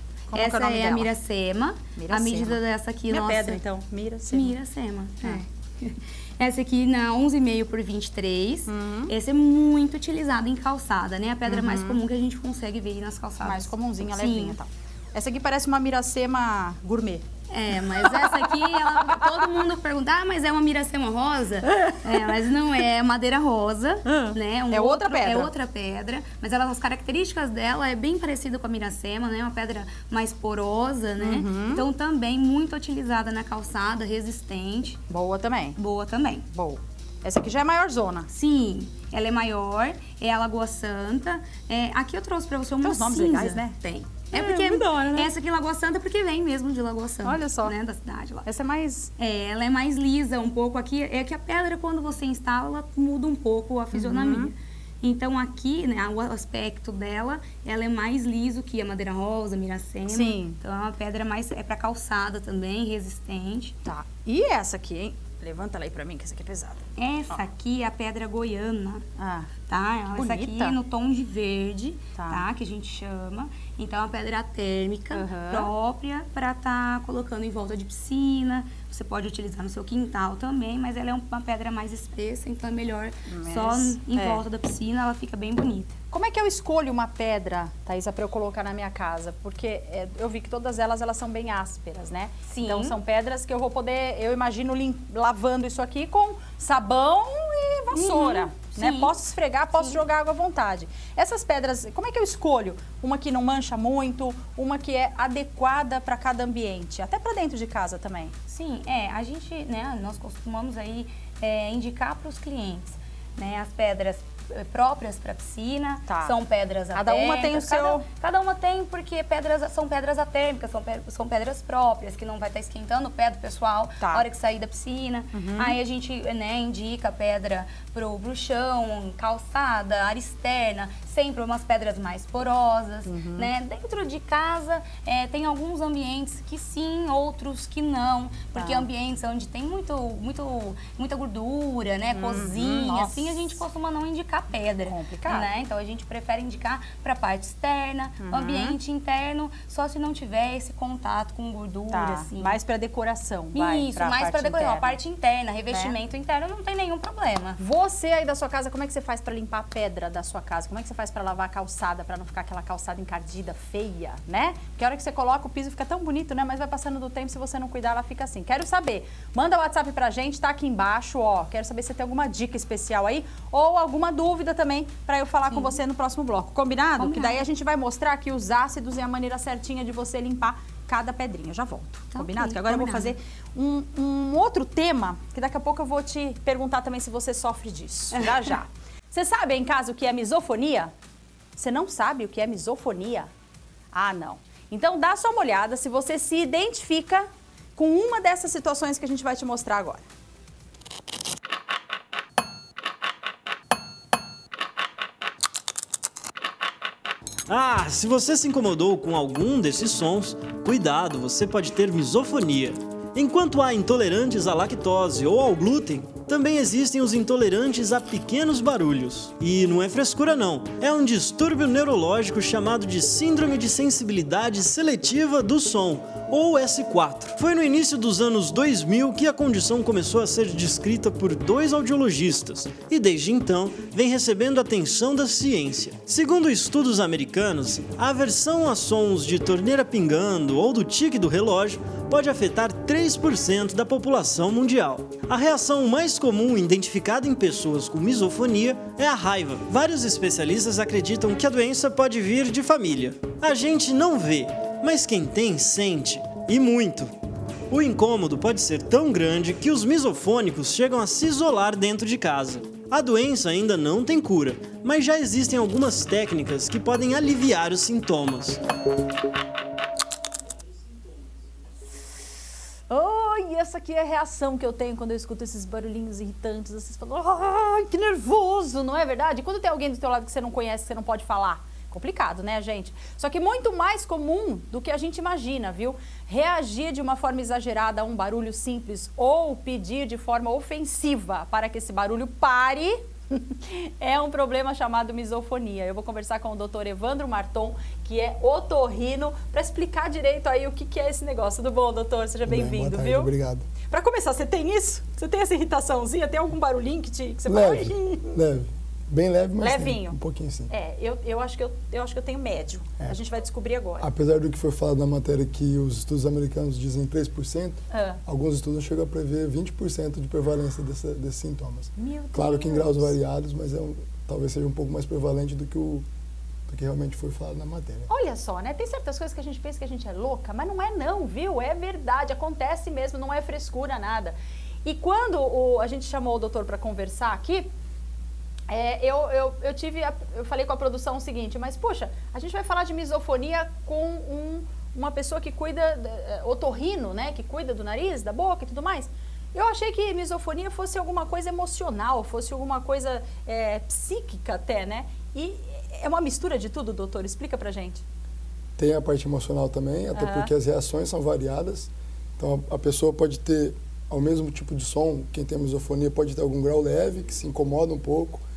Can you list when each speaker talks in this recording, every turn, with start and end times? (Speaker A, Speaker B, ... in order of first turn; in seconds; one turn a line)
Speaker A: 0.3-1.1
Speaker B: 0.3-3.6
Speaker A: 1.9-4.5
Speaker B: 4.3-14.6
Speaker A: 8.7-9.1
Speaker A: 11.4-12.0
Speaker A: 13.4-17.2
Speaker B: 17.5-35.0
Speaker A: 18.0-19.3
Speaker A: 21.8-22.1
Speaker A: 24.0-25.5
Speaker A: 31.2-31.9
Speaker A: 35.1-35.8
Speaker B: 35.8-36.5
Speaker A: 36.5-38.3
Speaker B: 38.3-48.5
Speaker A: 42.8-43.8
Speaker A: 44.3-45.3
Speaker A: 47.2-47.7
Speaker A: 48.4-49.1
Speaker B: 49.2-63.8
Speaker A: 53.9-54.5
Speaker A: 60.1-60.6
Speaker A: 63.9-67.4
Speaker B: 67.0-69.0
Speaker A: 69.2-69.5
Speaker B: 69.7-85.9
Speaker A: 70.1-70.8
Speaker A: 72.1-72.4
Speaker A: 75.1-75.7
Speaker A: 83.3-84.4
Speaker A: 86.1-108.3
Speaker B: 92.5-93.0
Speaker B: 97.9-99.1
Speaker B: 108.5-152.6
Speaker A: 116.1-116.4
Speaker A: 116.9-118.0
Speaker A: 124.0-124.2
Speaker A: 125.3-125.8
Speaker A: 133.1-133.5
Speaker A: 138.6-138.9
Speaker A: 142.1-143.6
Speaker A: 144.8-145.5
Speaker A: 148.2-148.8
Speaker A: 151.9-155.0
Speaker B: 153.5-157.6
Speaker A: 155.7-155.9
Speaker A: 157.6-190.9
Speaker B: 175.5-175.8
Speaker B: 177.0-177.4
Speaker B: 182.1-183.1
Speaker B: 188.2-188.4
Speaker A: 191.6-193.3
Speaker A: 193.9-200.0
Speaker C: 207.5-257.1
Speaker C: 257.7-268.6
Speaker A: 272.9-303.3
Speaker D: 302.5-303.7
Speaker A: 303.9-308.3
Speaker D: 307.5-310.7
Speaker A: 309.6-310.2
Speaker A: 310.7-314.1
Speaker D: 314.0-326.1
Speaker A: 317.9-318.2
Speaker A: 322.0-323.1
Speaker D: 326.7-328.1
Speaker A: 328.1-337.7
Speaker A: 338.7-358.0
Speaker D: 358.8-368.4
Speaker A: 360.1-360.5